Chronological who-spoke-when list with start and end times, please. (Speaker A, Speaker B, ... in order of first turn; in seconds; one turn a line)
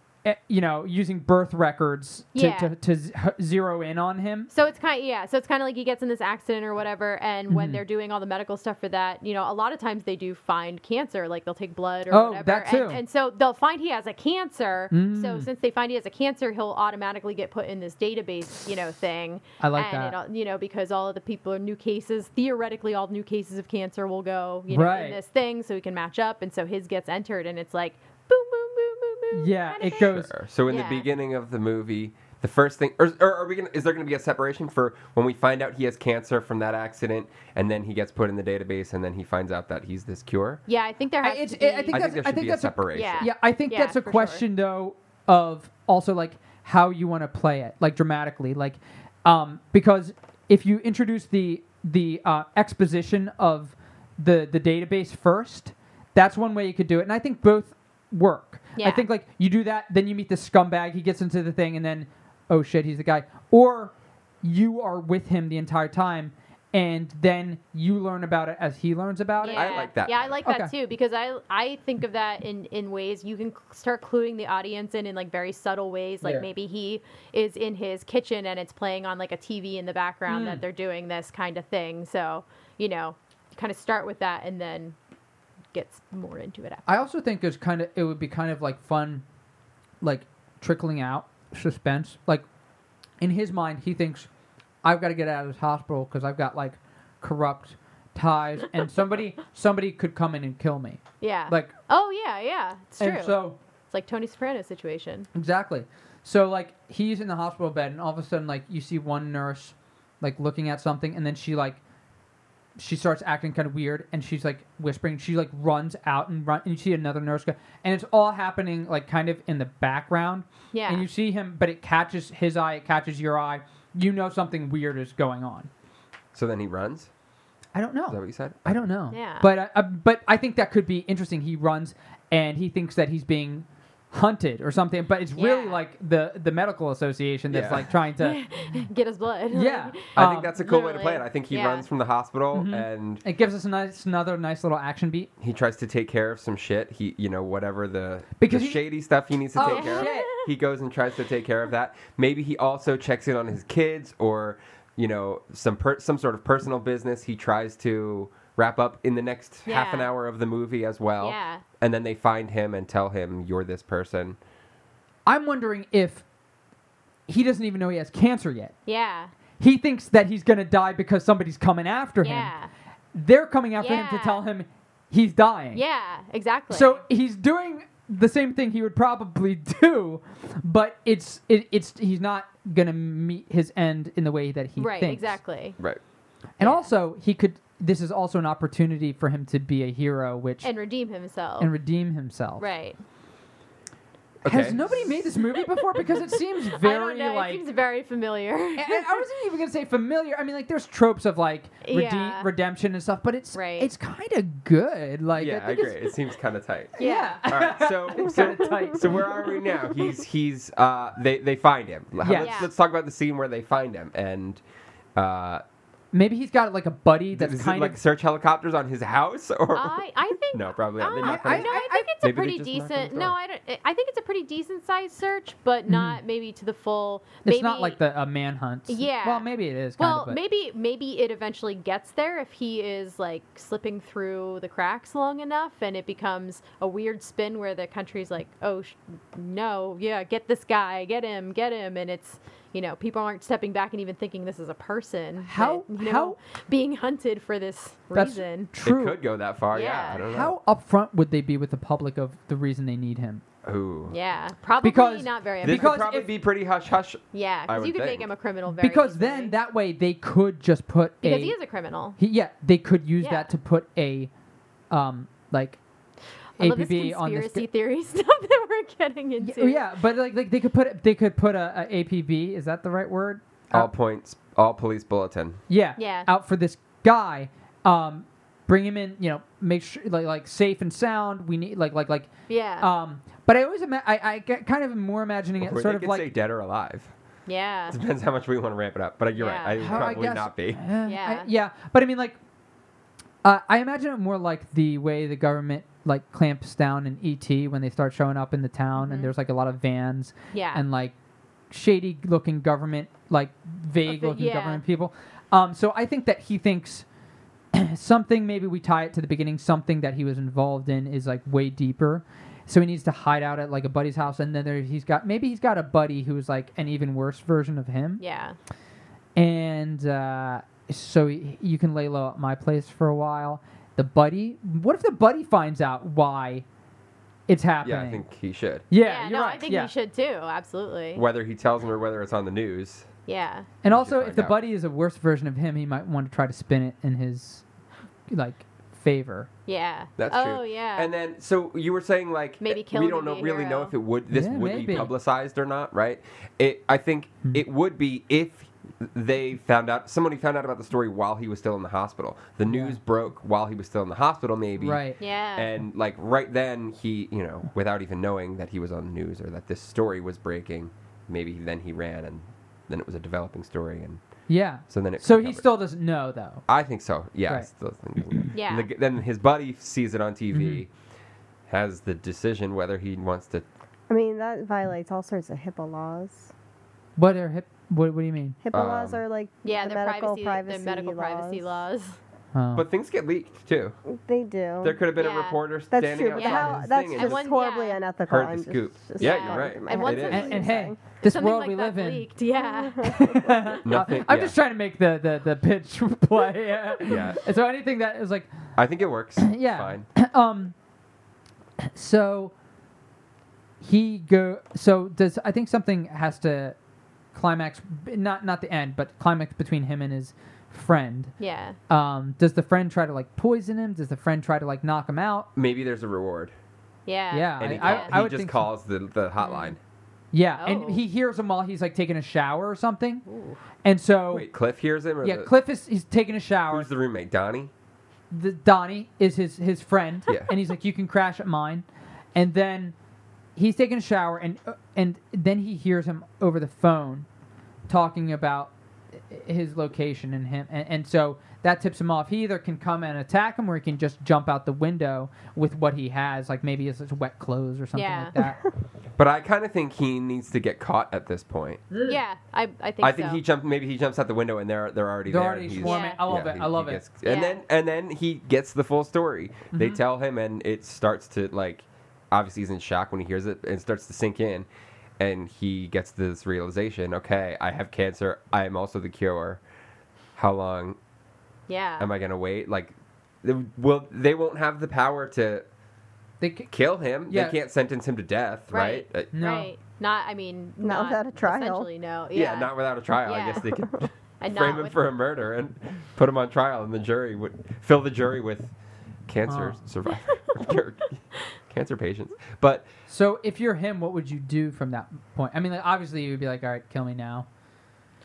Speaker A: 0.2-4.5
Speaker B: 2.4-2.7
Speaker B: 4.5-30.1
Speaker A: 7.5-7.8
Speaker A: 12.1-13.0
Speaker A: 14.9-15.5
Speaker A: 19.6-20.1
Speaker A: 24.7-25.2
Speaker A: 29.3-30.3
Speaker C: 29.9-40.6
Speaker B: 30.7-31.1
Speaker B: 40.7-42.0
Speaker A: 41.2-69.8
Speaker C: 41.9-43.2
Speaker B: 42.9-44.4
Speaker B: 58.8-59.0
Speaker B: 69.4-85.0
Speaker C: 69.5-70.4
Speaker A: 70.5-70.7
Speaker A: 80.3-80.6
Speaker B: 85.7-86.9
Speaker A: 86.9-89.2
Speaker A: 90.0-92.5
Speaker A: 93.2-94.3
Speaker A: 94.8-101.7
Speaker B: 101.2-105.3
Speaker A: 103.0-103.6
Speaker A: 105.3-111.8
Speaker A: 112.8-125.7
Speaker B: 120.7-121.1
Speaker C: 126.3-127.1
Speaker A: 127.8-138.8
Speaker C: 128.1-128.8
Speaker B: 129.1-129.5
Speaker B: 135.4-135.8
Speaker C: 137.5-137.9
Speaker B: 138.2-141.9
Speaker A: 139.5-140.6
Speaker C: 140.2-143.2
Speaker A: 142.5-145.3
Speaker C: 145.4-164.4
Speaker A: 148.4-148.9
Speaker A: 149.6-150.3
Speaker B: 149.6-150.4
Speaker B: 159.7-160.1
Speaker B: 161.2-161.6
Speaker A: 165.3-166.2
Speaker A: 167.3-168.8
Speaker B: 168.9-169.3
Speaker A: 169.6-172.5
Speaker B: 172.2-172.7
Speaker A: 173.1-175.8
Speaker B: 173.8-174.4
Speaker B: 175.7-177.0
Speaker A: 176.7-185.4
Speaker B: 184.8-185.8
Speaker A: 186.6-190.7
Speaker B: 186.6-186.9
Speaker B: 190.6-191.7
Speaker A: 191.6-192.7
Speaker B: 192.6-193.0
Speaker A: 194.4-197.7
Speaker C: 194.4-195.0
Speaker B: 195.5-199.2
Speaker A: 198.8-206.0
Speaker B: 201.8-202.5
Speaker B: 203.5-203.9
Speaker C: 205.4-214.6
Speaker B: 207.0-207.4
Speaker A: 207.0-209.3
Speaker A: 212.2-212.6
Speaker B: 212.4-212.7
Speaker C: 215.2-215.6
Speaker A: 216.1-218.0
Speaker C: 217.3-220.0
Speaker B: 219.7-228.0
Speaker C: 220.5-223.3
Speaker A: 221.2-222.1
Speaker A: 225.9-226.2
Speaker A: 227.4-230.4
Speaker B: 228.9-248.7
Speaker A: 245.5-246.4
Speaker A: 248.1-249.2
Speaker C: 248.8-250.5
Speaker B: 249.7-250.2
Speaker A: 250.3-253.4
Speaker C: 253.6-254.2
Speaker B: 254.1-256.1
Speaker A: 254.8-256.3
Speaker C: 255.6-258.3
Speaker B: 257.3-259.6
Speaker A: 258.8-261.6
Speaker B: 261.2-262.2
Speaker A: 262.2-264.3
Speaker B: 263.2-263.5
Speaker A: 264.9-265.8
Speaker A: 266.6-267.6
Speaker B: 266.6-269.9
Speaker A: 269.4-273.9
Speaker C: 273.7-275.6
Speaker A: 275.7-286.3
Speaker B: 276.0-276.3
Speaker B: 282.5-282.9
Speaker C: 285.6-287.1
Speaker B: 287.5-288.0
Speaker C: 287.9-290.8
Speaker B: 289.4-290.1
Speaker A: 289.8-292.4
Speaker B: 291.1-291.5
Speaker A: 293.4-301.1
Speaker B: 299.0-299.3
Speaker B: 300.5-300.8
Speaker A: 301.7-307.1
Speaker B: 304.1-304.8
Speaker A: 307.7-318.2
Speaker B: 318.2-318.6
Speaker A: 319.4-326.6
Speaker A: 327.5-328.2
Speaker C: 327.8-328.9
Speaker A: 328.9-329.9
Speaker B: 329.0-331.2
Speaker C: 331.1-333.1
Speaker B: 333.3-333.7
Speaker A: 333.8-337.6
Speaker C: 333.9-334.6
Speaker A: 338.3-339.5
Speaker B: 339.7-341.1
Speaker C: 340.2-364.2
Speaker B: 342.6-344.0
Speaker A: 344.3-345.1
Speaker A: 352.7-353.0
Speaker A: 354.8-355.2
Speaker B: 355.2-355.7
Speaker A: 364.5-366.6
Speaker C: 364.9-365.6
Speaker C: 366.7-370.9
Speaker B: 368.5-368.9
Speaker A: 370.5-370.8
Speaker C: 371.7-373.7
Speaker D: 374.1-376.5
Speaker A: 377.2-378.6
Speaker D: 378.6-381.9
Speaker C: 378.7-379.2
Speaker B: 379.6-382.2
Speaker A: 382.5-382.9
Speaker C: 382.8-383.9
Speaker D: 384.1-385.0
Speaker C: 384.8-387.5
Speaker B: 385.2-385.6
Speaker D: 385.9-391.0
Speaker B: 386.3-388.0
Speaker C: 388.3-390.6
Speaker B: 389.2-393.7
Speaker A: 390.3-392.3
Speaker D: 392.6-393.6
Speaker A: 393.0-398.5
Speaker C: 393.8-394.6
Speaker C: 397.0-397.5
Speaker C: 398.8-400.1
Speaker A: 399.4-400.7
Speaker A: 401.8-402.5
Speaker A: 403.8-406.8
Speaker A: 407.3-411.3
Speaker B: 411.4-411.8
Speaker A: 411.9-415.5
Speaker C: 415.6-416.5
Speaker B: 417.1-418.1
Speaker A: 417.3-418.7
Speaker C: 417.6-419.8
Speaker B: 419.4-419.8
Speaker A: 420.3-423.2
Speaker B: 420.6-421.0
Speaker B: 423.3-423.6
Speaker A: 423.8-424.5
Speaker C: 424.3-425.5
Speaker A: 425.2-426.9
Speaker C: 426.7-427.7
Speaker A: 428.3-432.9
Speaker A: 433.6-437.3
Speaker A: 437.9-448.6
Speaker B: 447.9-448.3
Speaker C: 449.2-451.9
Speaker B: 452.0-453.4
Speaker C: 453.0-464.7
Speaker A: 455.3-457.0
Speaker B: 455.8-456.2
Speaker B: 457.2-457.6
Speaker A: 459.7-460.0
Speaker C: 465.2-469.6
Speaker C: 470.4-471.0
Speaker B: 471.7-472.1
Speaker C: 472.0-475.7
Speaker A: 476.4-476.7
Speaker C: 476.7-479.3
Speaker A: 477.3-477.6
Speaker B: 478.7-483.8
Speaker A: 479.3-479.7
Speaker D: 480.8-481.9
Speaker C: 482.3-488.7
Speaker B: 484.4-485.0
Speaker C: 489.3-492.9
Speaker A: 489.5-489.8
Speaker A: 493.1-497.5